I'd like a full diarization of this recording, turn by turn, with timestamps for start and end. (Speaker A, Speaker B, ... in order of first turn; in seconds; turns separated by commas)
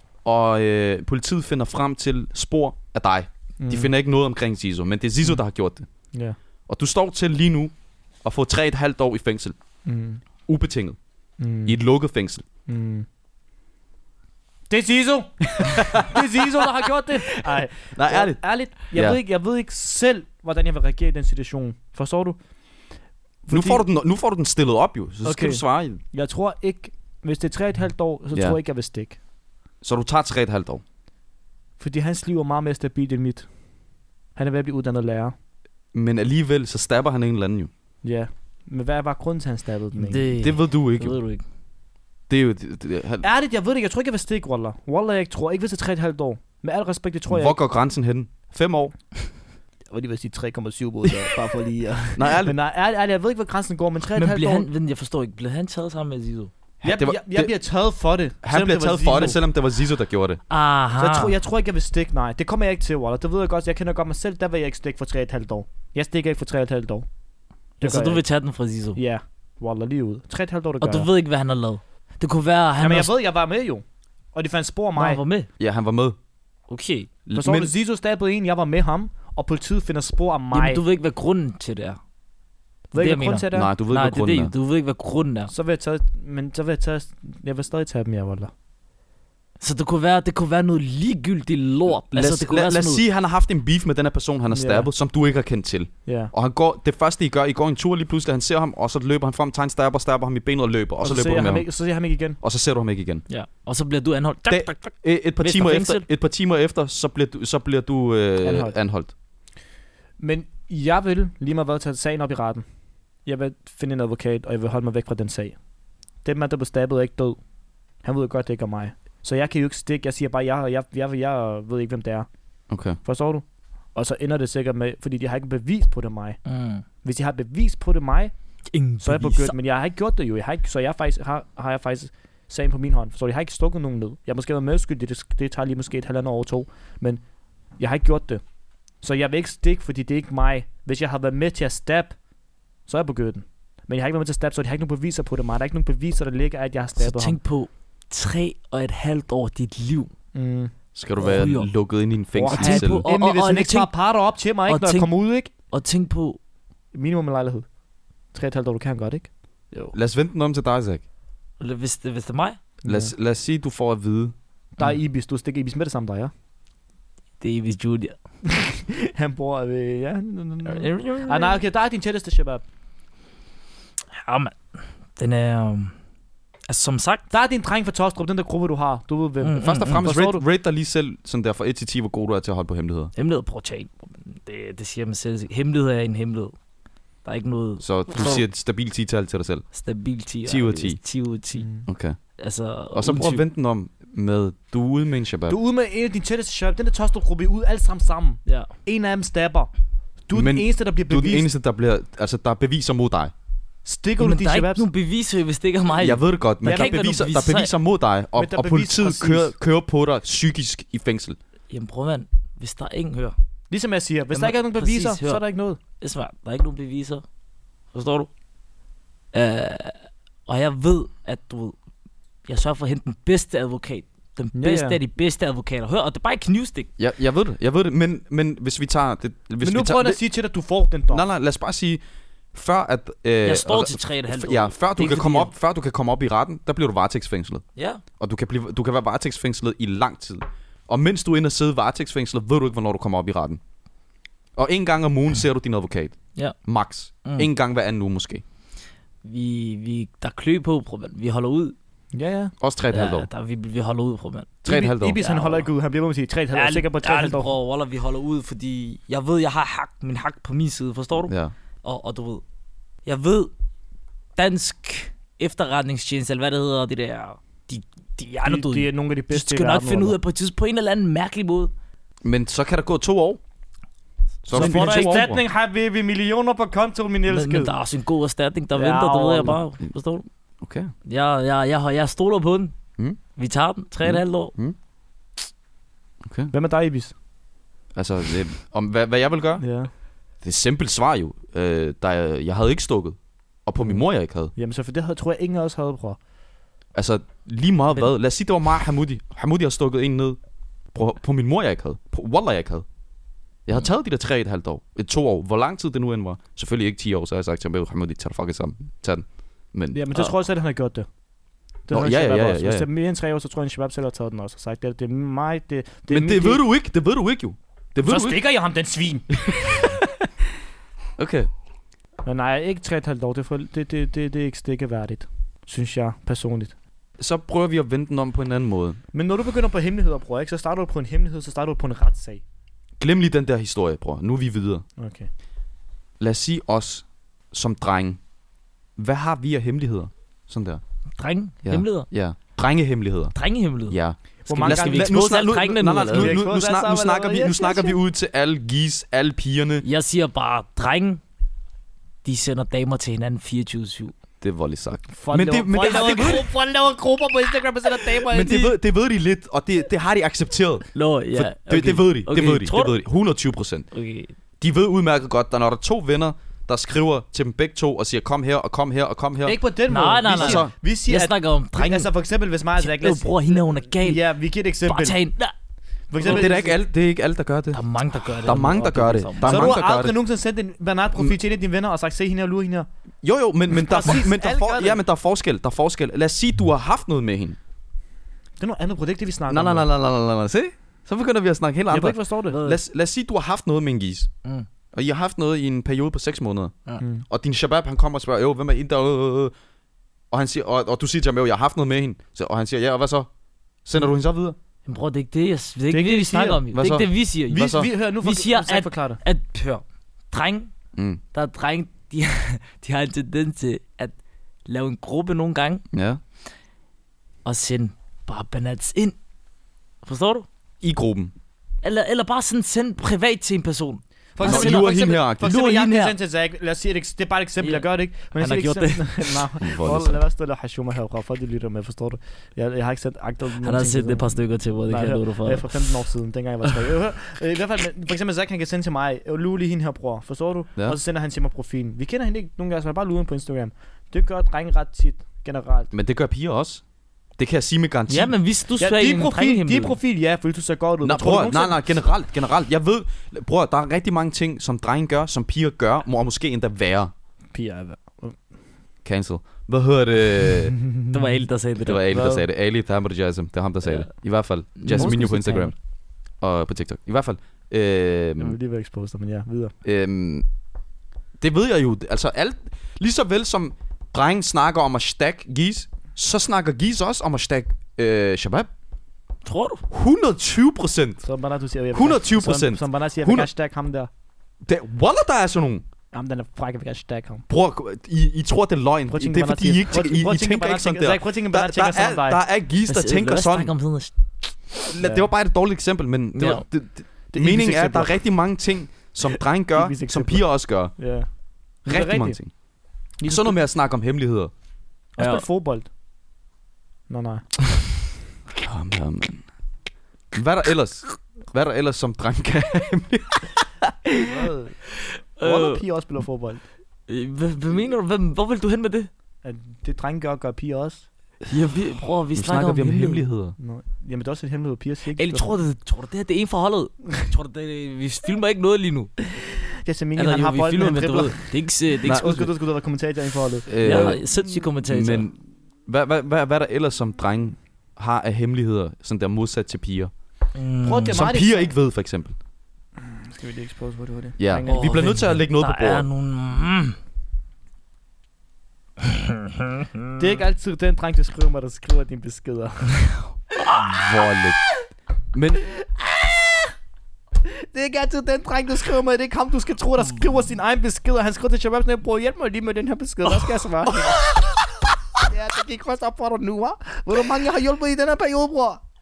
Speaker A: 0.2-5.9, Speaker B: 3.6-3.9, Speaker B: 6.1-6.4, Speaker A: 6.7-9.6, Speaker B: 9.8-10.2, Speaker A: 10.5-11.0, Speaker B: 11.4-11.8, Speaker A: 11.6-12.4, Speaker B: 12.7-13.1, Speaker B: 14.7-22.4, Speaker A: 15.6-16.4, Speaker A: 17.6-19.2, Speaker B: 23.4-23.8, Speaker A: 23.5-26.0, Speaker B: 25.2-29.2, Speaker A: 29.8-30.8, Speaker B: 31.8-33.5, Speaker B: 34.4-35.3, Speaker A: 35.9-37.7, Speaker B: 38.0-40.3, Speaker C: 40.0-41.4, Speaker A: 40.4-41.2, Speaker A: 42.3-43.2, Speaker B: 43.2-47.6, Speaker A: 47.3-48.9, Speaker B: 49.9-54.6, Speaker A: 52.1-52.5, Speaker C: 54.1-56.5, Speaker A: 56.8-57.5, Speaker B: 56.8-59.4, Speaker A: 58.4-60.4, Speaker C: 60.5-61.3, Speaker B: 61.0-67.0, Speaker B: 67.8-68.2, Speaker C: 67.8-69.0, Speaker B: 68.9-71.1, Speaker C: 70.8-73.1, Speaker B: 72.8-75.2, Speaker C: 75.0-75.5, Speaker A: 75.6-76.2, Speaker C: 76.7-77.1, Speaker A: 77.2-77.7, Speaker B: 77.3-80.8, Speaker C: 80.5-82.0, Speaker B: 82.9-83.7, Speaker C: 83.0-85.5, Speaker A: 83.5-84.5, Speaker B: 85.5-88.5, Speaker C: 89.6-93.0, Speaker A: 92.1-101.7, Speaker B: 94.5-94.9, Speaker B: 96.0-96.3, Speaker B: 101.0-102.4, Speaker A: 102.4-103.2, Speaker C: 103.3-106.0, Speaker A: 104.5-109.1, Speaker B: 108.4-108.8, Speaker B: 110.2-112.7, Speaker B: 113.2-115.6, Speaker B: 116.2-117.4, Speaker B: 118.0-122.3, Speaker A: 122.7-123.0, Speaker B: 123.0-126.4, Speaker C: 126.5-126.8, Speaker B: 127.0-128.3, Speaker C: 128.7-129.5, Speaker B: 129.0-137.2, Speaker B: 137.8-138.4, Speaker B: 139.0-142.2, Speaker B: 142.8-147.4, Speaker C: 147.0-150.1, Speaker B: 150.3-150.7, Speaker A: 150.9-153.1, Speaker C: 151.2-151.7, Speaker B: 152.3-155.5, Speaker C: 152.5-153.9, Speaker C: 154.7-156.4, Speaker B: 156.9-157.7, Speaker B: 158.3-159.9, Speaker A: 159.9-161.0, Speaker C: 161.6-162.6, Speaker B: 162.8-163.1, Speaker A: 162.8-164.3, Speaker B: 164.8-166.3, Speaker C: 167.4-168.2, Speaker B: 168.4-172.6, Speaker C: 170.7-171.6, Speaker C: 174.1-174.6, Speaker C: 175.2-175.9, Speaker C: 176.7-177.3, Speaker B: 177.3-180.4, Speaker C: 179.4-180.1, Speaker A: 179.6-183.1, Speaker C: 183.2-186.5, Speaker C: 187.2-188.4, Speaker A: 187.8-189.7, Speaker C: 189.7-191.7, Speaker A: 190.4-191.0, Speaker B: 191.6-191.8, Speaker A: 191.8-192.2, Speaker C: 192.4-193.4, Speaker A: 192.9-195.6, Speaker B: 195.5-199.7, Speaker B: 200.3-201.5, Speaker A: 200.3-203.3, Speaker B: 203.8-204.8, Speaker C: 204.2-207.7, Speaker A: 206.0-211.4, Speaker B: 206.6-207.0, Speaker B: 208.3-209.5, Speaker C: 211.7-213.3, Speaker B: 213.7-215.8, Speaker C: 214.3-215.4, Speaker C: 216.0-217.2, Speaker C: 217.9-218.3, Speaker C: 219.3-221.7, Speaker C: 222.5-226.9, Speaker B: 224.5-225.0, Speaker A: 227.0-230.2, Speaker B: 229.6-231.2, Speaker A: 231.1-232.0, Speaker A: 232.5-237.6, Speaker C: 233.4-235.5, Speaker C: 237.8-238.0, Speaker A: 238.2-243.6, Speaker A: 244.6-248.4, Speaker C: 247.2-247.5, Speaker C: 249.2-251.7, Speaker B: 252.1-252.5, Speaker A: 252.6-253.3, Speaker C: 252.9-255.7, Speaker A: 254.6-255.2, Speaker B: 254.7-257.5, Speaker C: 256.5-261.3, Speaker A: 261.3-261.5, Speaker C: 261.8-262.4, Speaker C: 263.0-263.5, Speaker C: 264.4-271.7, Speaker B: 268.4-270.2, Speaker A: 272.2-273.4, Speaker A: 274.4-275.4, Speaker C: 274.5-275.3, Speaker B: 274.5-277.7, Speaker C: 277.3-280.2, Speaker B: 278.7-279.6, Speaker A: 280.6-280.9, Speaker C: 281.1-282.7, Speaker C: 283.4-284.5, Speaker A: 284.0-284.8, Speaker A: 286.2-286.5, Speaker B: 286.5-287.1, Speaker A: 287.9-289.6, Speaker B: 289.6-289.9, Speaker A: 290.4-294.5, Speaker B: 294.5-296.2, Speaker A: 296.9-300.4, Speaker A: 300.9-302.8, Speaker A: 303.6-310.0, Speaker B: 309.9-311.1, Speaker B: 311.9-316.6, Speaker A: 311.9-312.9, Speaker A: 316.1-318.4, Speaker B: 318.0-319.4, Speaker A: 319.4-319.9, Speaker A: 321.2-321.5, Speaker B: 322.2-326.7, Speaker A: 327.2-329.0, Speaker B: 329.1-332.4, Speaker A: 333.0-334.8, Speaker B: 335.0-335.3, Speaker A: 336.2-338.2, Speaker A: 339.0-340.8, Speaker C: 341.2-342.1, Speaker A: 341.6-343.3, Speaker C: 343.3-346.4, Speaker A: 343.9-349.8, Speaker B: 344.5-345.2, Speaker B: 346.1-347.9, Speaker C: 349.8-351.2, Speaker C: 352.2-354.1, Speaker A: 354.4-356.4, Speaker B: 355.1-358.7, Speaker C: 355.8-356.4, Speaker A: 358.3-363.9, Speaker C: 360.9-362.9, Speaker C: 363.9-364.3, Speaker A: 364.6-369.6, Speaker B: 369.4-375.2, Speaker C: 369.9-372.1, Speaker A: 370.3-370.7, Speaker C: 372.8-374.2, Speaker C: 374.8-375.5, Speaker B: 376.1-376.8, Speaker C: 376.2-376.5, Speaker A: 376.2-380.1, Speaker C: 377.7-379.8, Speaker B: 379.4-382.9, Speaker A: 383.2-387.6, Speaker B: 383.7-385.0, Speaker B: 388.6-389.9, Speaker A: 389.5-394.3, Speaker B: 391.9-392.6, Speaker C: 392.5-392.8, Speaker A: 394.9-396.7, Speaker B: 397.0-397.2, Speaker A: 397.3-399.5, Speaker A: 400.3-403.3, Speaker A: 403.8-404.6, Speaker C: 404.9-410.7, Speaker B: 405.9-406.6, Speaker A: 406.7-407.9, Speaker B: 407.5-409.2, Speaker A: 410.9-411.2, Speaker C: 411.3-414.1, Speaker C: 414.6-415.8, Speaker A: 415.9-416.2, Speaker C: 417.4-419.1, Speaker C: 420.0-420.4, Speaker A: 420.8-421.3, Speaker C: 421.8-426.1, Speaker B: 424.4-434.3, Speaker A: 424.4-425.5, Speaker C: 427.6-429.5, Speaker A: 429.6-430.2, Speaker C: 433.6-435.9, Speaker B: 434.9-445.9, Speaker A: 445.9-446.8, Speaker A: 447.4-448.3, Speaker C: 448.1-450.0, Speaker B: 448.8-451.8, Speaker A: 451.0-457.1, Speaker B: 457.5-458.5, Speaker A: 459.0-460.8, Speaker C: 461.1-462.1, Speaker A: 461.8-465.7, Speaker B: 462.1-462.4, Speaker C: 464.8-465.7, Speaker B: 464.9-465.7, Speaker A: 466.4-468.6, Speaker B: 468.4-469.7, Speaker A: 469.8-470.4, Speaker A: 471.4-478.7, Speaker C: 479.4-479.8, Speaker A: 479.9-481.2, Speaker B: 481.2-484.1, Speaker A: 481.9-483.5, Speaker A: 484.6-485.8, Speaker B: 486.1-487.4, Speaker A: 487.5-493.7, Speaker B: 489.1-492.4, Speaker C: 492.9-494.3, Speaker A: 494.9-500.9, Speaker B: 495.0-495.3, Speaker C: 496.3-496.6, Speaker B: 497.3-498.2, Speaker B: 499.7-501.3, Speaker B: 501.8-502.4, Speaker A: 501.9-502.5, Speaker B: 503.2-503.6, Speaker A: 503.2-504.5, Speaker B: 505.1-505.9, Speaker C: 505.2-505.4, Speaker B: 507.1-507.5, Speaker A: 508.5-509.4, Speaker A: 510.3-513.6, Speaker B: 514.2-514.8, Speaker C: 515.4-515.8, Speaker B: 515.4-516.6, Speaker C: 517.1-519.1, Speaker B: 519.4-521.0, Speaker C: 521.5-523.2, Speaker A: 522.3-523.5, Speaker B: 523.6-525.6, Speaker C: 525.1-529.2, Speaker B: 529.7-531.4, Speaker C: 530.2-532.2, Speaker B: 532.0-534.2, Speaker A: 532.0-532.5, Speaker A: 533.7-540.1, Speaker C: 533.8-535.3, Speaker C: 540.5-541.2, Speaker B: 540.8-541.7, Speaker A: 541.1-542.3, Speaker B: 543.0-545.0, Speaker A: 544.4-546.1, Speaker C: 544.6-547.0, Speaker B: 550.2-553.0, Speaker A: 553.7-554.6, Speaker A: 555.3-555.7, Speaker B: 555.9-556.6, Speaker B: 557.4-564.2, Speaker B: 565.3-568.8